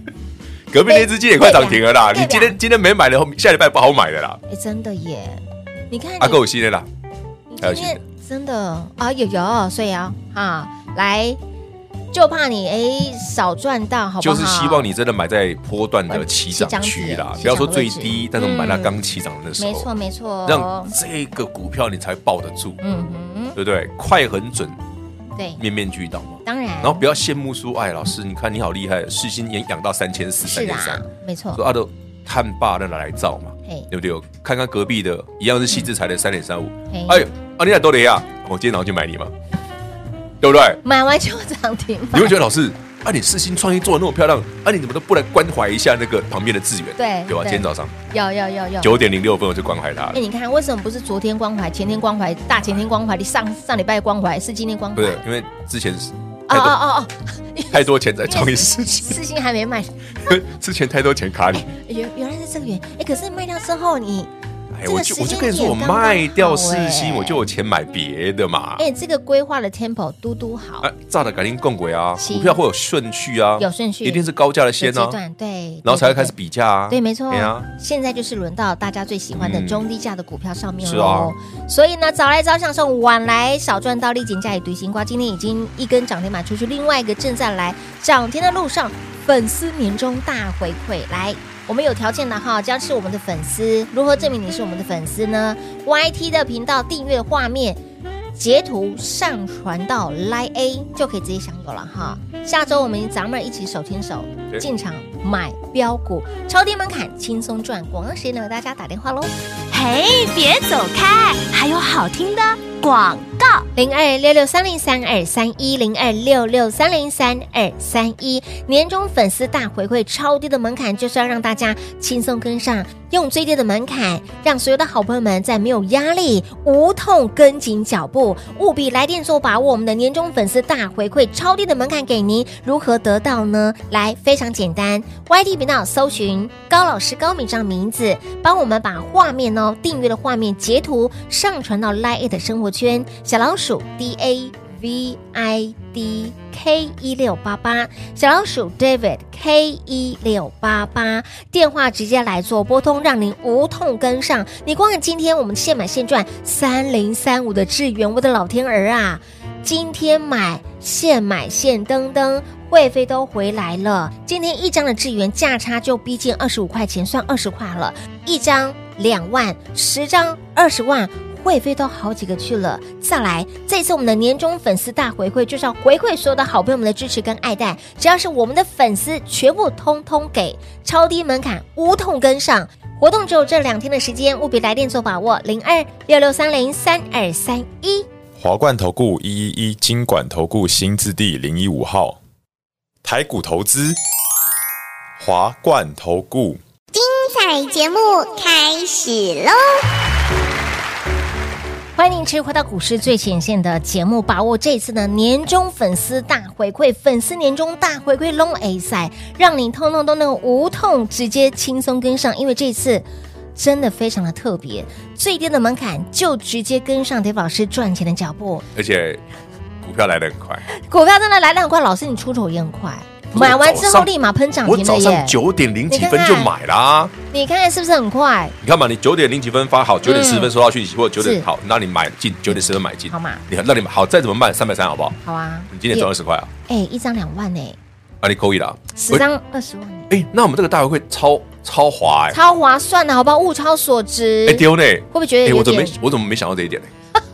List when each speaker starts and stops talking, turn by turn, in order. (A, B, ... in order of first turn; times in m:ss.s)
0:00.7-0:04.4 A
0:00.8-0:02.6 B
0:04.5-0:06.4 B
0:06.2-0:06.9 A
0:07.5-0:11.4 B
0:07.6-0:08.0 A
0:12.1-0:14.9 B
0:14.2-0:19.9 A
0:16.1-0:18.9 B
0:19.6-0:20.9 B
0:20.4-0:22.8 A
0:22.8-0:23.6 B
0:23.5-0:24.8 A
0:25.4-0:25.6 B
0:25.6-0:39.3 A
0:26.4-0:27.0 B
0:30.4-0:31.6 B
0:36.9-0:37.2 B
0:40.4-0:40.8 A
0:40.8-0:42.4 B
0:42.1-0:47.9 A
0:47.0-0:48.9 B
0:48.8-0:50.2 A
0:50.1-0:55.2 B
0:54.9-0:56.8 A
0:56.5-1:00.3 B
0:57.7-0:59.2 A
1:00.2-1:01.7 A
1:01.6-1:04.3 B
1:04.7-1:08.8 A
1:04.8-1:07.4 B
1:08.8-1:10.9 B
1:10.8-1:15.2 A
1:12.2-1:12.6 B
1:13.6-1:14.2 B
1:14.8-1:16.3 B
1:15.8-1:17.7 A
1:16.9-1:37.8 B
1:19.4-1:19.9 A
1:20.8-1:21.3 A
1:38.4-1:49.3 B
1:49.7-1:53.6 C
1:53.7-3:08.1 B
3:08.4-3:12.2 D
3:13.0-3:14.0 D
3:15.2-3:16.6 D
3:16.9-3:19.8 E
3:22.0-3:38.6 B
3:38.7-3:39.2 A
3:39.8-3:40.6 A
3:40.7-3:45.4 B
3:43.3-3:44.1 A
3:44.6-3:47.1 A
3:45.9-3:46.5 B
3:47.3-3:48.5 B
3:48.6-3:55.2 A
3:50.0-3:50.5 B
3:51.2-3:51.4 B
3:52.5-3:53.4 B
3:55.2-3:56.1 B
3:55.7-3:56.5 A
3:56.7-3:57.8 B
3:58.2-3:59.2 A
3:58.9-4:00.1 B
4:00.1-4:02.4 A
4:02.3-4:05.9 B
4:04.4-4:06.9 A